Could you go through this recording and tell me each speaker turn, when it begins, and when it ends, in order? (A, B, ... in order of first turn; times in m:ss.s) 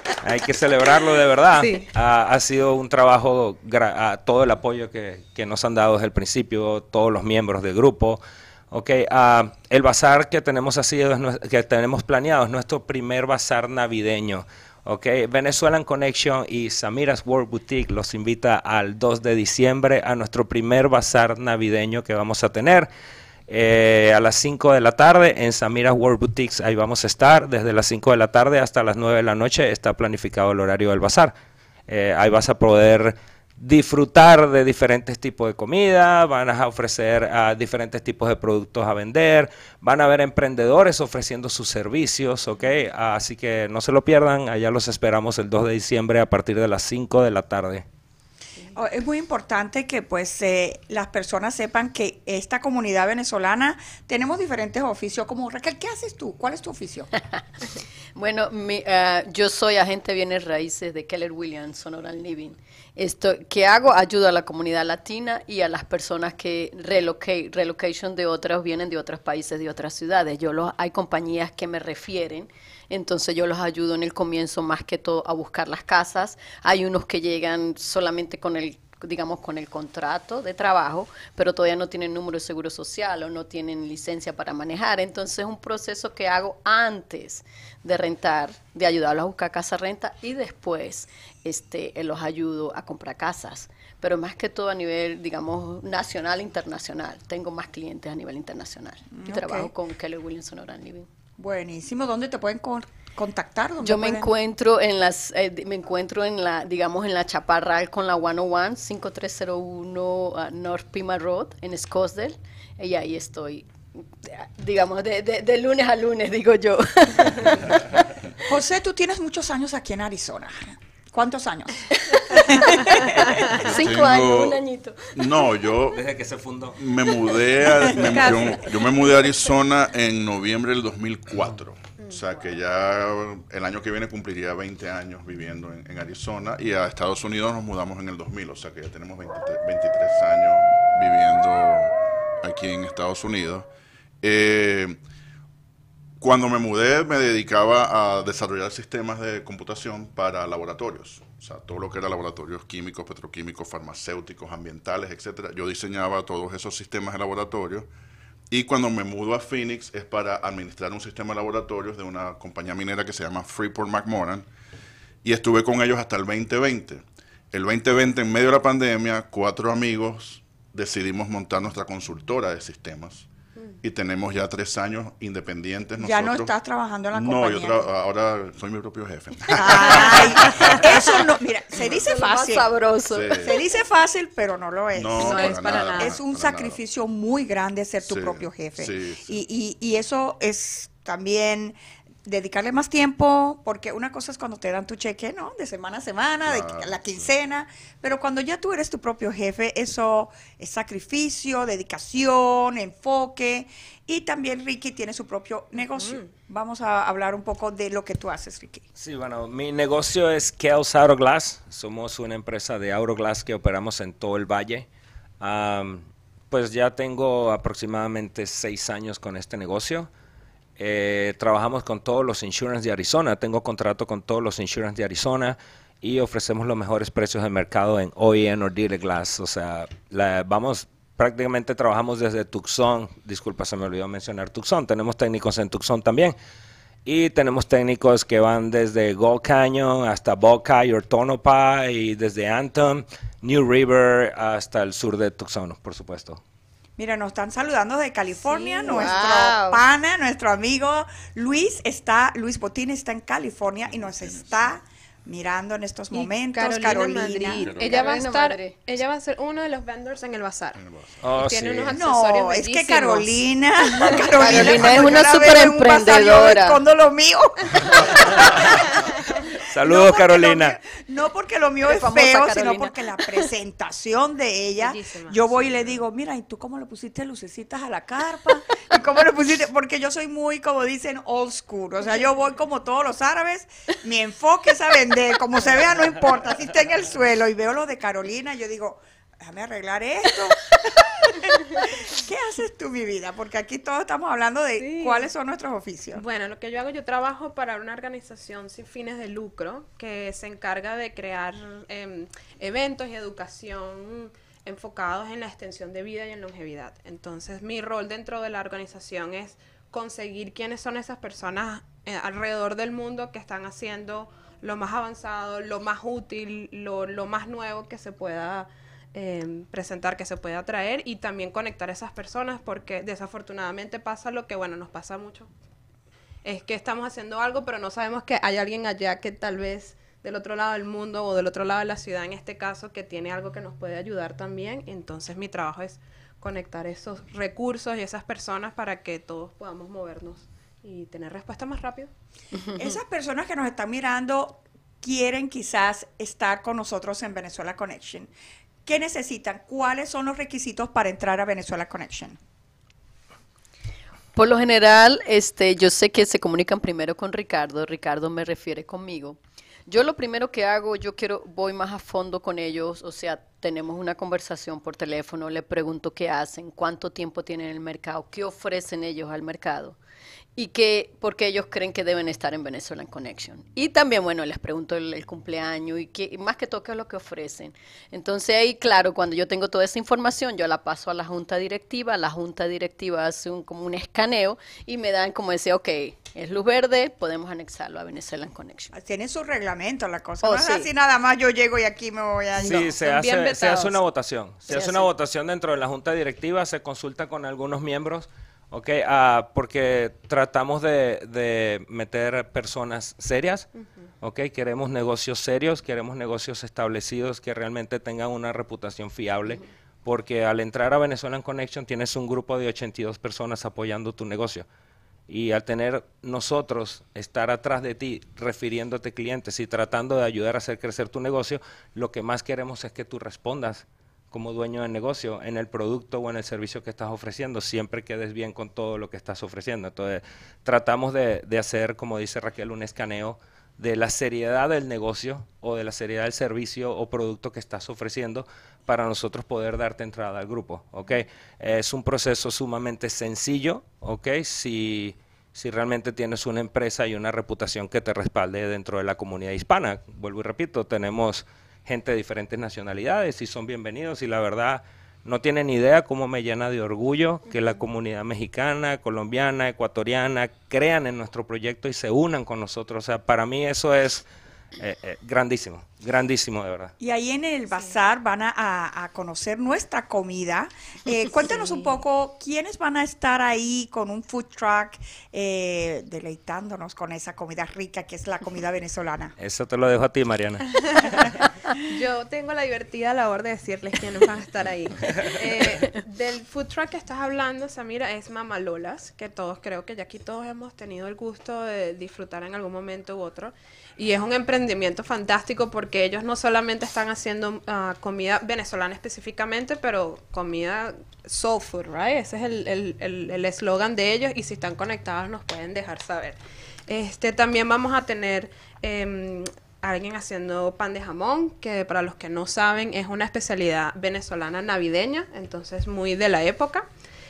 0:00.2-0:22.9 A
0:01.6-0:01.9 B
0:23.5-0:31.3 A
0:31.9-0:47.8 A
0:48.7-0:57.1 C
0:58.2-1:41.1 D
1:39.1-1:39.7 C
1:41.4-1:44.3 C
1:43.8-1:53.7 D
1:54.2-1:57.8 D
1:58.5-2:03.4 C
2:02.1-2:02.7 D
2:03.5-2:05.6 D
2:03.6-2:04.6 E
2:05.1-2:06.0 E
2:05.9-2:06.8 A
2:06.8-2:23.7 E
2:08.0-2:08.5 B
2:24.2-2:25.0 E
2:26.2-2:37.9 E
2:38.5-2:44.4 E
2:45.2-2:53.3 E
2:53.8-2:56.5 E
2:56.0-2:57.9 C
2:57.1-3:01.2 E
2:59.5-3:02.7 C
3:01.8-3:03.5 D
3:03.1-3:03.5 E
3:03.3-3:28.8 C
3:04.9-3:06.8 E
3:05.1-3:06.2 B
3:08.0-3:09.4 E
3:16.4-3:17.3 E
3:25.8-3:26.3 B
3:29.0-3:34.9 A
3:35.4-3:40.1 A
3:40.8-3:56.3 A
3:57.0-4:06.4 A
4:07.0-4:17.7 C
4:08.6-4:09.8 D
4:13.9-4:14.7 E
4:16.1-4:20.8 B
4:17.5-4:18.2 E
4:17.8-4:18.8 D
4:20.8-4:21.2 E
4:21.2-4:21.9 A
4:21.4-4:24.9 B
4:21.9-4:28.7 C
4:24.3-4:26.8 D
4:29.7-4:30.8 A
4:29.7-4:56.2 C
4:31.8-4:32.9 D
4:34.8-4:35.9 B
4:54.8-4:55.3 B
4:56.1-5:25.5 B
5:26.4-5:42.1 B
5:42.7-5:48.3 C
5:48.8-5:52.4 C
5:54.3-6:10.0 D
6:10.6-6:28.9 D
6:28.9-6:32.9 C
6:30.4-6:30.9 D
6:32.6-6:43.7 A
6:32.7-6:34.0 B
6:34.8-6:35.1 D
6:44.2-6:54.6 A
6:55.3-7:44.2 A
7:44.8-7:46.9 A
7:47.0-7:59.3 C
7:51.6-7:51.9 B
7:59.4-8:00.7 A
8:00.9-8:01.3 B
8:01.8-8:36.8 B